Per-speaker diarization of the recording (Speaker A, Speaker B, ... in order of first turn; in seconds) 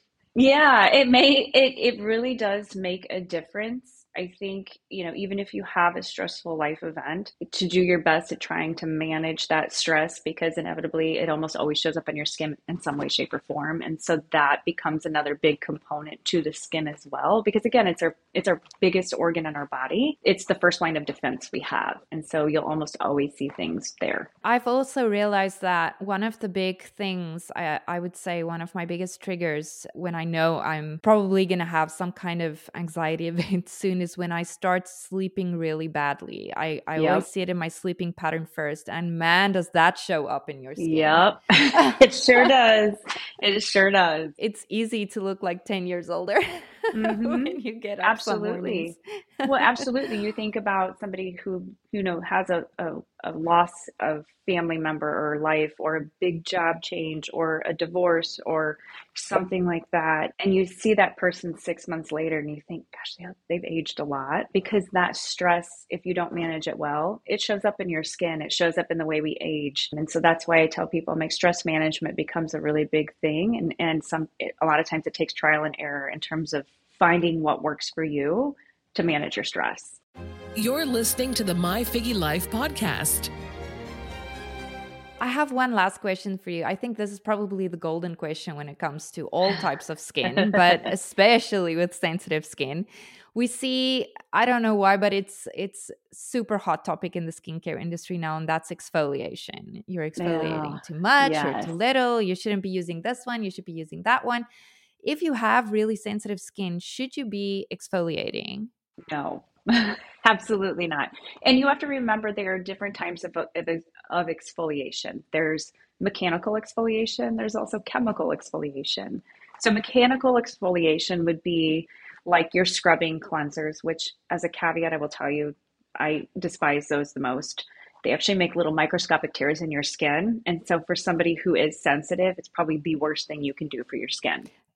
Speaker A: 0.3-24.3, 37.0-37.2, 40.8-44.4, 46.9-80.0, 90.3-90.9, 100.2-101.7, 109.1-134.5
Speaker B: 24.4-42.0, 44.4-49.9, 85.2-104.5, 105.0-108.7
Speaker C: 80.5-83.3